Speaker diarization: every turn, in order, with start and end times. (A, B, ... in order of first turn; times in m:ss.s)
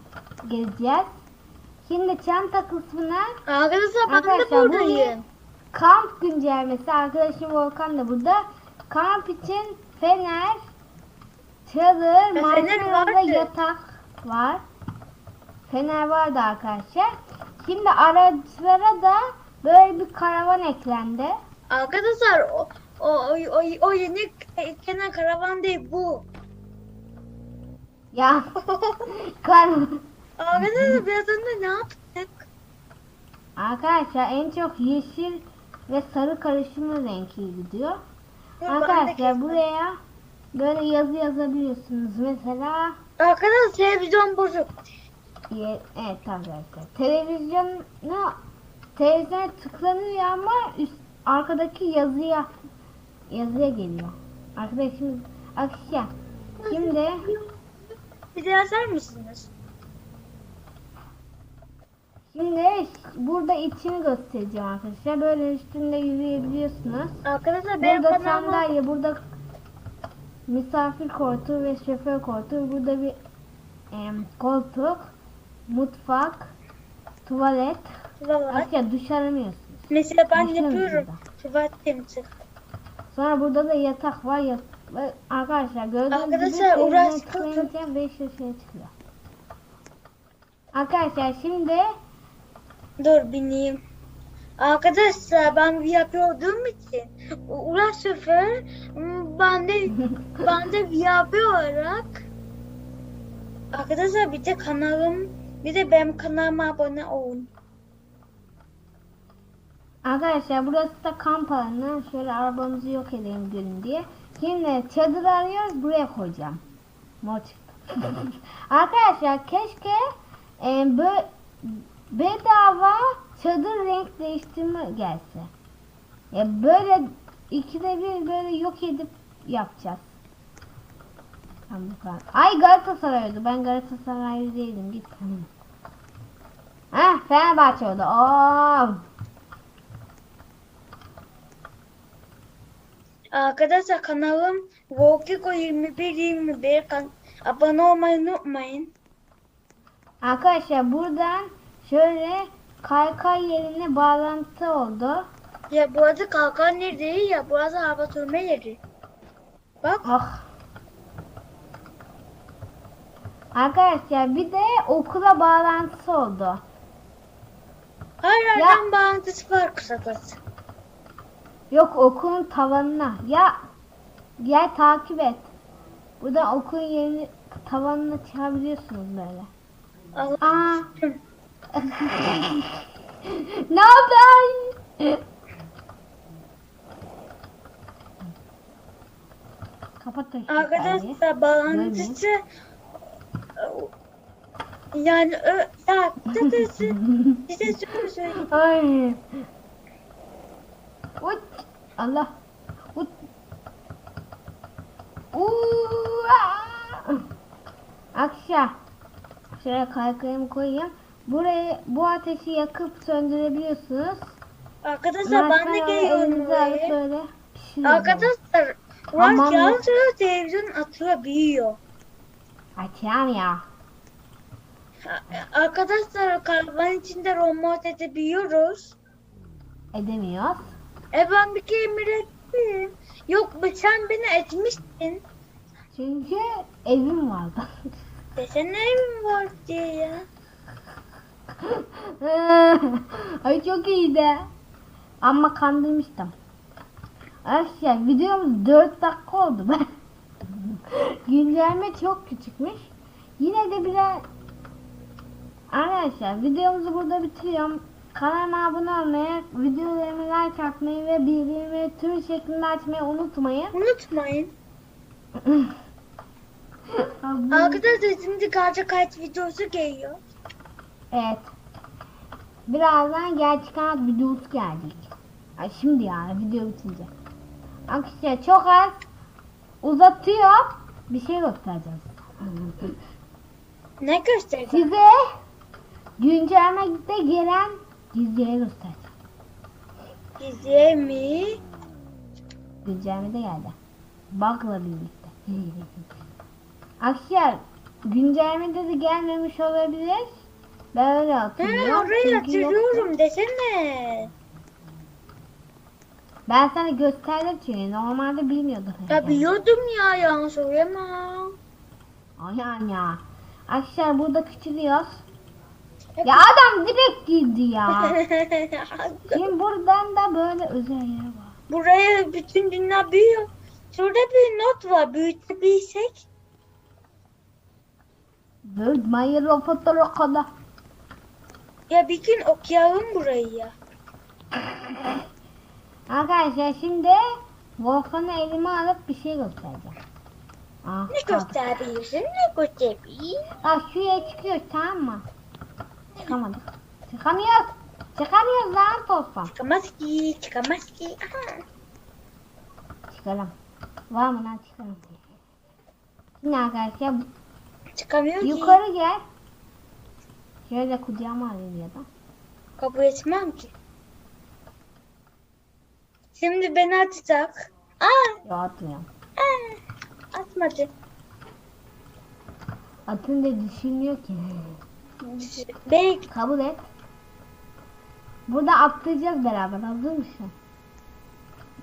0:00.4-0:01.1 A
0:01.8-0:03.3 A
0:03.5-0:05.2 B
0:04.1-0:05.1 A
0:05.7-0:10.7 A
0:11.6-0:14.6 A
0:12.4-0:13.5 B
0:15.6-0:21.4 A
0:21.7-0:26.2 B
0:28.1-0:28.4 A
0:28.7-0:29.1 B
0:29.2-0:30.0 A
0:30.4-0:32.4 B
0:30.6-0:31.0 A
0:33.6-0:38.0 A
0:38.6-0:39.6 B
0:38.7-0:40.0 A
0:40.5-0:43.0 A
0:43.2-0:44.8 B
0:45.5-0:48.4 A
0:49.0-0:52.5 A
0:53.3-0:56.1 A
0:56.6-0:57.5 B
0:56.7-0:57.2 A
0:58.3-0:59.5 B
1:02.3-1:07.2 A
1:07.2-1:08.7 B
1:07.8-1:09.2 A
1:10.5-1:13.2 A
1:13.9-1:15.1 A
1:15.7-1:16.5 A
1:17.2-1:17.9 A
1:18.2-1:18.7 B
1:18.5-1:19.8 A
1:19.9-1:22.3 B
1:20.3-1:21.2 A
1:23.1-1:28.9 A
1:26.1-1:27.7 B
1:30.7-1:31.9 A
1:33.0-1:33.8 B
1:34.6-1:42.2 B
1:43.7-1:47.5 B
1:50.0-1:56.6 A
1:57.2-2:00.0 A
2:00.6-2:05.5 A
2:06.3-2:10.2 A
2:11.7-2:15.5 A
2:16.9-2:19.0 A
2:23.3-2:28.9 B
2:30.2-2:35.3 A
2:35.7-2:38.8 B
2:40.0-2:40.5 A
2:43.6-2:46.6 A
2:48.2-2:50.4 B
2:48.6-2:48.8 A
2:51.7-2:53.6 A
2:54.4-2:55.5 A
2:56.2-2:59.5 A
3:00.2-3:01.2 B
3:00.4-3:00.9 A
3:01.8-3:02.7 A
3:03.3-3:05.2 A
3:10.0-3:12.2 A
3:10.5-3:12.4 B
3:13.6-3:13.9 B
3:14.9-3:18.4 B
3:16.5-3:17.4 A
3:18.4-3:19.3 A
3:21.2-3:22.3 A
3:25.3-3:27.2 A
3:28.2-3:28.8 A
3:29.6-3:34.4 A
3:34.8-3:37.0 B
3:35.2-3:38.3 A
3:37.8-3:41.8 B
3:39.2-3:39.8 A
3:42.8-3:43.6 A
3:45.1-3:49.0 B
3:49.9-3:50.7 A
3:51.1-3:55.2 B
3:55.9-3:57.7 A
3:58.4-4:00.2 B
4:01.6-4:04.5 A
4:05.2-4:06.3 A
4:07.4-4:09.9 A
4:10.5-4:14.2 A
4:15.7-4:23.8 A
4:23.7-4:24.5 B
4:25.4-4:25.7 A
4:27.2-4:27.8 A
4:27.5-4:30.2 B
4:31.1-4:31.5 A
4:32.7-4:37.1 A
4:37.9-4:39.0 A
4:39.8-4:43.0 A
4:44.0-4:44.9 B
4:44.7-4:45.2 A
4:46.2-4:49.1 A
4:50.4-4:51.6 B
4:52.8-4:53.8 A
4:54.3-4:55.9 A
4:57.0-5:03.1 A
5:01.6-5:04.3 B
5:06.5-5:09.4 A
5:09.1-5:11.5 B
5:12.4-5:15.2 A
5:16.2-5:16.4 B
5:16.2-5:18.2 A
5:17.9-5:19.4 B
5:19.3-5:21.6 A
5:21.7-5:26.2 B
5:28.6-5:30.5 A
5:31.9-5:33.7 B
5:36.1-5:37.2 A
5:37.8-5:40.0 A
5:40.8-5:41.6 A
5:41.1-5:43.4 B
5:43.6-5:45.2 A
5:46.2-5:49.5 A
5:49.5-5:51.6 B
5:53.1-5:53.5 A
5:54.1-5:55.2 A
5:56.4-5:57.2 A
5:58.0-5:58.8 B
5:58.4-5:59.2 A
6:00.6-6:02.1 A
6:02.8-6:03.7 B
6:06.3-6:08.4 B
6:08.4-6:09.1 A
6:09.4-6:09.8 B
6:10.3-6:10.9 B
6:13.1-6:14.8 A
6:15.2-6:16.3 B
6:16.3-6:16.9 A
6:18.5-6:20.5 A